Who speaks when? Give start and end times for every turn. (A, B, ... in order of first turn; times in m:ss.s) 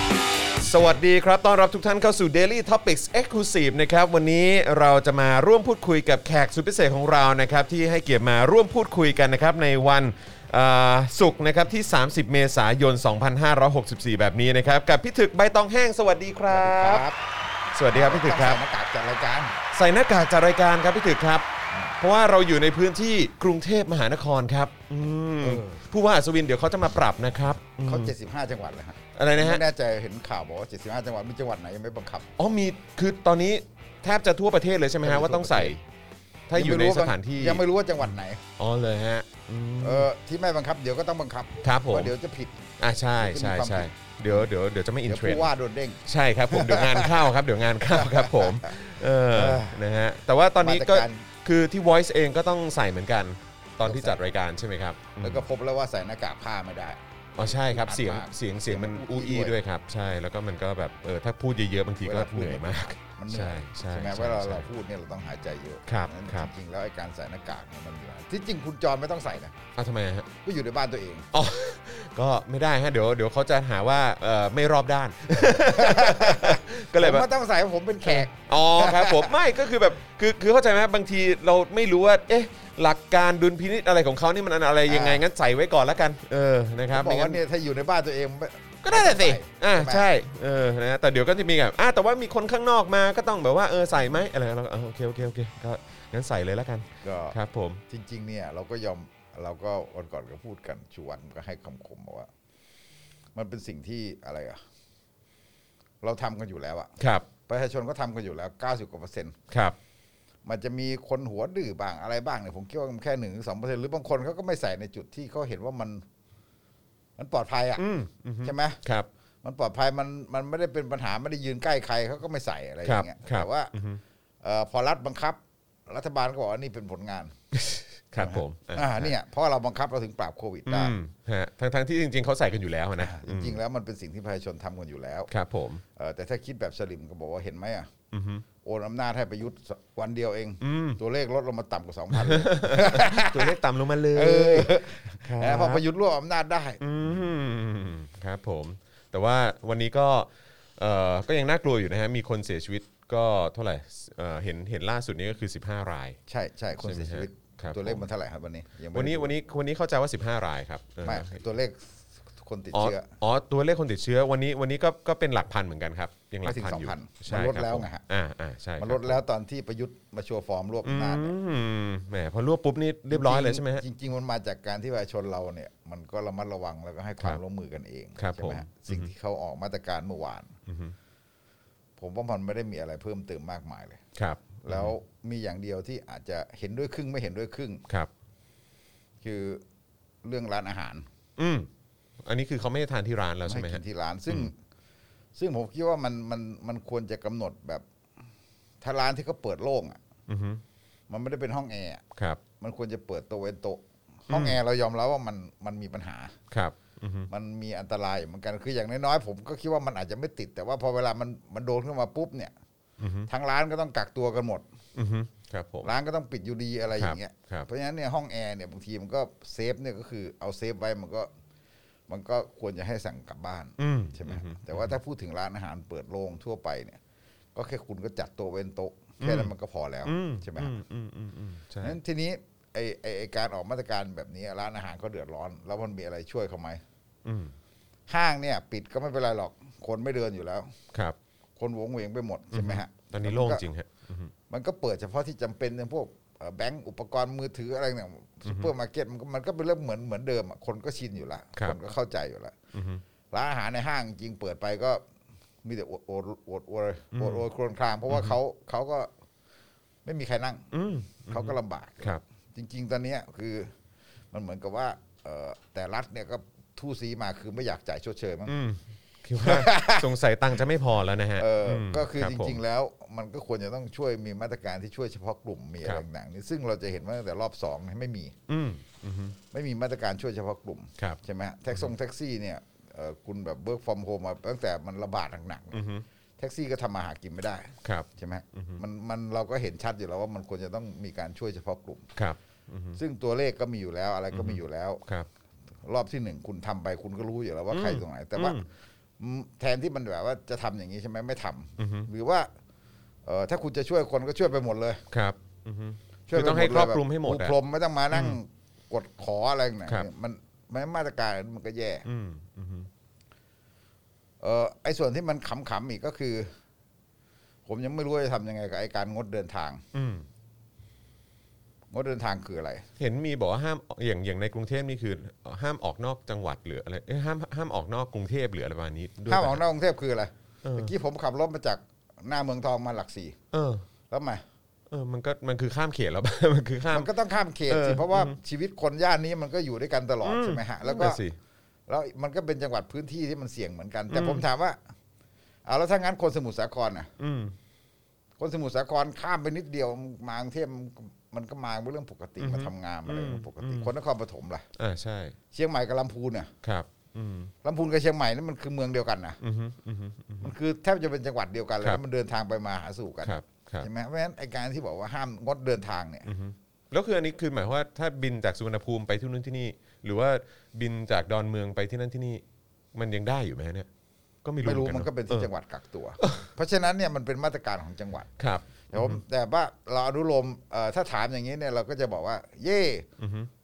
0:00.6-0:17.1 A
0:16.5-0:17.2 B
0:17.7-0:18.6 A
0:17.9-0:19.6 B
0:19.7-0:21.5 A
0:22.0-0:28.2 A
0:25.4-0:25.8 B
0:27.8-0:32.3 B
0:29.2-0:29.6 A
0:32.4-0:35.8 A
0:35.0-0:35.8 B
0:36.5-0:38.0 A
0:36.5-0:38.4 B
0:38.6-0:40.1 A
0:39.8-0:42.7 B
0:41.6-0:42.1 A
0:42.8-0:45.5 A
0:43.2-0:44.5 B
0:45.1-0:47.3 B
0:46.1-0:55.5 A
0:47.9-0:49.8 B
0:50.6-0:51.3 B
0:53.8-0:54.3 B
0:55.2-0:59.6 B
0:57.4-1:04.7 A
1:02.0-1:09.6 B
1:05.9-1:06.5 A
1:09.8-1:10.3 A
1:10.4-1:11.3 B
1:11.3-1:17.3 A
1:15.4-1:19.4 B
1:18.0-1:27.4 A
1:24.9-1:25.2 B
1:26.9-1:30.0 B
1:28.8-1:37.8 A
1:37.0-1:37.4 B
1:37.9-1:42.3 B
1:43.4-1:44.6 B
1:46.0-1:46.9 B
1:47.0-1:47.3 A
1:47.5-1:49.4 B
1:49.5-1:49.8 A
1:50.4-1:56.0 B
1:57.2-1:57.9 B
1:57.8-1:59.1 A
1:58.4-1:58.8 B
1:59.4-2:03.7 B
2:02.8-2:04.0 A
2:04.4-2:07.4 B
2:07.5-2:09.1 A
2:08.2-2:11.0 B
2:10.7-2:13.6 A
2:13.0-2:15.3 B
2:15.3-2:15.8 A
2:16.0-2:17.9 B
2:18.1-2:18.5 A
2:18.6-2:23.6 B
2:20.6-2:21.0 A
2:22.1-2:25.8 A
2:24.1-2:27.2 B
2:26.8-2:36.2 A
2:36.3-2:39.4 B
2:36.8-2:38.0 A
2:38.9-2:41.4 A
2:41.0-2:43.1 B
2:42.7-2:49.2 A
2:46.4-2:48.0 B
2:48.8-2:51.3 B
2:50.8-2:53.8 A
2:53.1-3:00.6 B
2:58.2-2:59.1 A
3:00.7-3:01.0 A
3:02.0-3:04.0 B
3:04.2-3:04.9 A
3:04.6-3:07.9 B
3:09.2-3:09.6 B
3:10.2-3:11.0 B
3:11.4-3:11.7 A
3:12.2-3:14.5 A
3:13.5-3:14.6 B
3:15.4-3:17.8 B
3:18.8-3:20.0 B
3:20.3-3:20.6 A
3:21.1-3:22.0 B
3:22.1-3:22.4 A
3:22.6-3:26.4 B
3:24.3-3:24.6 A
3:26.5-3:27.3 A
3:27.3-3:32.5 B
3:33.0-3:33.3 A
3:33.3-3:34.6 B
3:35.0-3:35.9 A
3:35.8-3:41.3 B
3:37.0-3:37.7 A
3:42.1-3:47.0 B
3:43.8-3:45.0 A
3:47.6-3:50.8 B
3:49.2-3:49.5 A
3:50.0-3:52.0 A
3:51.8-3:56.8 B
3:57.2-3:57.6 A
3:58.1-4:00.7 B
4:01.6-4:03.7 B
4:02.5-4:04.3 A
4:04.5-4:12.6 B
4:08.4-4:08.7 A
4:11.6-4:11.8 A
4:12.7-4:13.0 A
4:13.3-4:15.0 B
4:15.6-4:19.1 B
4:17.1-4:17.4 A
4:18.1-4:18.4 A
4:20.0-4:20.7 B
4:20.7-4:22.2 A
4:21.3-4:23.7 B
4:24.3-4:28.6 B
4:28.5-4:32.6 A
4:29.4-4:30.1 B
4:31.4-4:38.4 B
4:38.5-4:39.4 A
4:39.5-4:45.8 B
4:45.7-4:46.0 A
4:46.4-4:52.1 B
4:47.8-4:48.8 A
4:52.2-4:53.0 A
4:53.0-4:55.0 B
4:54.3-4:55.3 A
4:55.8-4:58.6 B
4:57.7-4:58.7 A
4:59.2-5:02.5 B
5:01.8-5:02.1 A
5:03.3-5:05.0 B
5:05.1-5:07.6 A
5:06.3-5:12.1 B
5:08.1-5:08.4 A
5:12.0-5:12.9 A
5:14.4-5:16.5 B
5:17.7-5:19.8 B
5:19.9-5:20.3 A
5:21.9-5:22.9 B
5:23.0-5:29.6 A
5:29.3-5:33.4 B
5:30.6-5:30.9 A
5:33.5-5:33.8 A
5:34.1-5:34.4 B
5:34.9-5:37.1 A
5:36.9-5:41.2 B
5:37.7-5:38.4 A
5:40.2-5:41.4 A
5:41.9-5:44.8 B
5:44.1-5:44.4 A
5:45.7-5:47.1 B
5:47.2-5:47.6 A
5:48.4-5:54.7 B
5:52.4-5:53.9 A
5:54.8-5:55.4 A
5:55.5-5:56.5 B
5:56.6-5:57.5 A
5:57.6-5:59.4 B
5:59.4-6:00.5 A
6:00.4-6:06.3 B
6:03.2-6:03.9 A
6:06.3-6:12.4 A
6:12.9-6:13.9 A
6:14.4-6:15.5 A
6:14.6-6:18.3 B
6:16.2-6:16.5 A
6:18.4-6:19.2 A
6:18.9-6:23.1 B
6:23.2-6:23.5 A